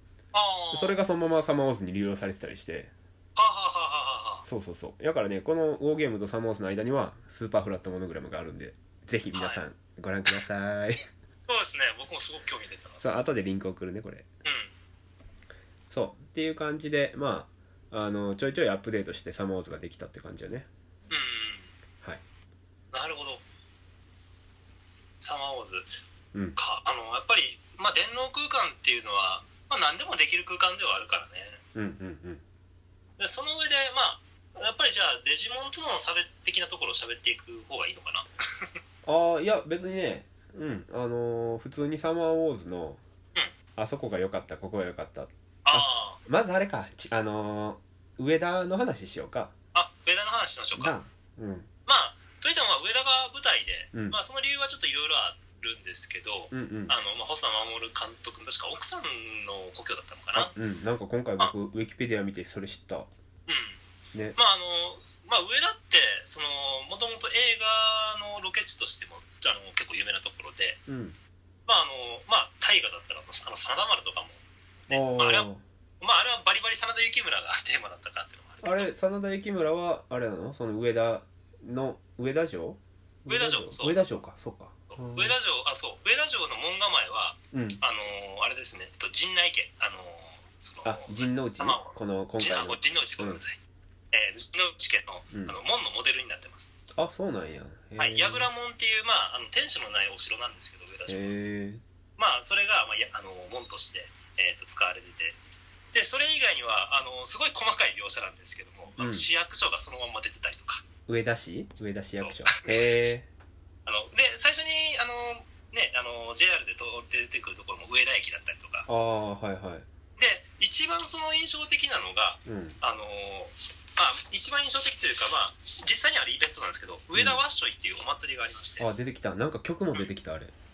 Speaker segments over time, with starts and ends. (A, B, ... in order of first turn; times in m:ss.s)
0:00.3-0:01.0 A
0:00.7-0:02.9 B
0:03.4-0:04.4 A
0:04.4-0:11.0 B
0:09.4-0:09.6 A
0:11.5-0:13.0 A
0:13.0-0:14.3 B
0:14.4-0:14.7 A
0:15.9-0:20.7 B
0:21.1-0:21.7 A
0:22.9-0:23.4 A
0:25.2-0:26.0 A
0:26.6-0:31.6 A
0:31.8-0:32.4 B
0:33.2-0:38.7 A
0:39.0-0:43.0 B
0:43.8-0:49.5 B
0:45.6-0:46.2 A
0:49.8-0:51.0 A
0:50.8-0:51.7 B
0:51.9-1:00.5 A
0:56.5-0:57.0 B
1:00.3-1:03.1 B
1:03.5-1:03.8 A
1:04.4-1:10.8 A
1:10.9-1:11.2 B
1:11.7-1:15.5 A
1:14.9-1:15.6 B
1:16.0-1:18.9 A
1:18.6-1:25.4 B
1:23.3-1:24.0 A
1:24.9-1:33.6 A
1:27.5-1:27.8 B
1:30.8-1:33.4 B
1:34.1-1:36.7 A
1:35.3-1:35.6 B
1:37.0-1:38.5 B
1:38.0-1:41.4 A
1:41.1-1:41.8 B
1:42.2-1:45.4 A
1:45.9-1:50.8 A
1:49.0-1:49.3 B
1:51.1-1:53.3 B
1:52.2-1:53.1 A
1:53.9-1:58.9 A
1:58.9-1:59.9 B
2:00.2-2:08.8 A
2:02.5-2:02.8 B
2:07.2-2:07.4 B
2:08.8-2:10.5 B